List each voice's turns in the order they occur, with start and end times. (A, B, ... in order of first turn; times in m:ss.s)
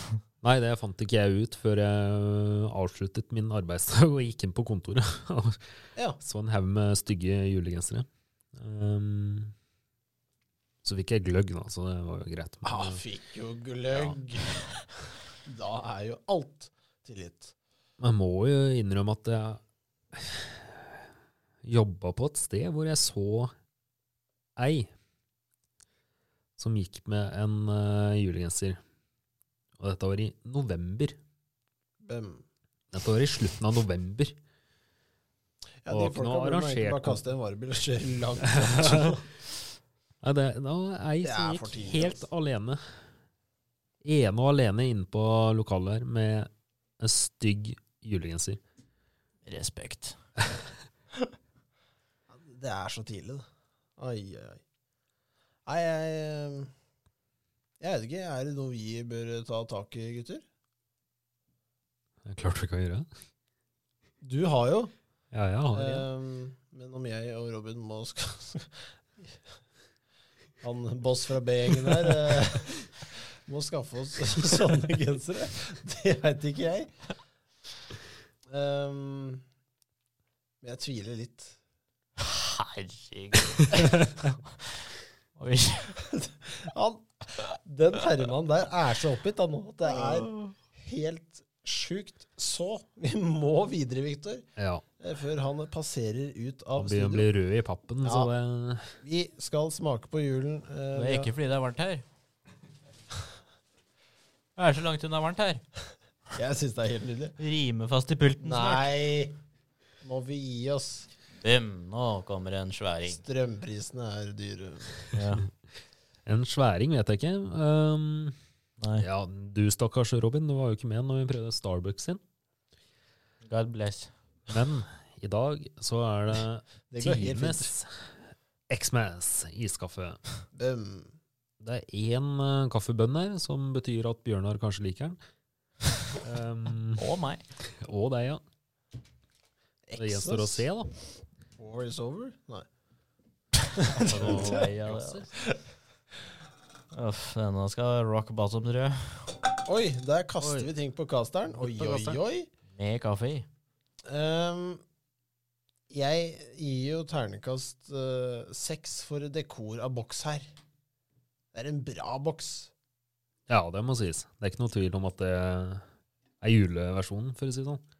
0:00.4-0:05.6 A
0:06.2-0:09.5 A
0:10.8-0:13.0 A
0:12.6-0:14.6 B
0:13.9-0:14.2 A
0:15.4-0:17.6 B
0:18.0-0:19.6 A
0:20.1-0:21.0 A
0:21.6-0:23.5 A
0:24.6-0:24.9 A
0:26.6-0:28.8 A
0:29.8-0:31.2 A
0:32.0-0:32.4 B
0:32.9-0:34.3 A
0:35.8-0:39.4 B
0:35.9-0:37.2 A
0:38.5-0:39.1 A
0:40.2-0:42.8 A
0:41.2-0:42.2 B
0:44.0-0:46.5 A
0:47.0-0:48.6 A
0:49.5-0:50.2 C
0:52.3-0:53.4 B
0:54.0-0:54.6 B
0:55.7-0:56.7 B
0:57.8-1:00.4 B
1:02.3-1:03.1 A
1:04.2-1:04.9 B
1:05.3-1:06.1 A
1:05.7-1:08.8 B
1:10.6-1:12.9 B
1:13.5-1:16.9 B
1:18.5-1:19.4 B
1:20.6-1:21.6 B
1:22.2-1:24.5 C
1:25.4-1:25.9 C
1:26.0-1:34.4 B
1:29.9-1:30.5 C
1:34.6-1:34.8 A
1:35.0-1:37.3 B
1:36.8-1:38.9 A
1:38.0-1:38.3 B
1:39.0-1:41.3 B
1:41.0-1:42.0 C
1:44.6-1:45.6 C
1:46.3-1:47.4 B
1:47.4-1:48.9 C
1:48.4-1:49.3 B
1:50.0-1:51.1 B
1:51.4-1:53.2 C
1:53.1-1:55.0 B
1:55.1-1:55.5 C
1:56.3-1:58.4 A
1:58.8-1:59.1 C
1:59.0-2:02.2 A
2:03.4-2:04.1 C
2:04.5-2:08.1 A
2:06.9-2:07.7 B
2:08.7-2:10.2 A
2:10.5-2:11.2 B
2:11.6-2:15.2 A
2:16.2-2:17.0 A
2:17.0-2:17.4 C
2:17.8-2:18.4 A
2:19.9-2:20.7 B
2:20.0-2:20.9 A
2:21.6-2:22.7 B
2:23.8-2:24.5 B
2:24.0-2:25.3 A
2:24.1-2:25.3 C
2:26.9-2:29.4 C
2:29.6-2:32.5 B
2:30.4-2:30.7 A
2:31.5-2:32.2 A
2:32.7-2:33.5 C
2:34.1-2:34.8 B
2:35.9-2:40.5 B
2:41.5-2:42.7 B
2:43.5-2:45.8 A
2:46.4-2:47.8 A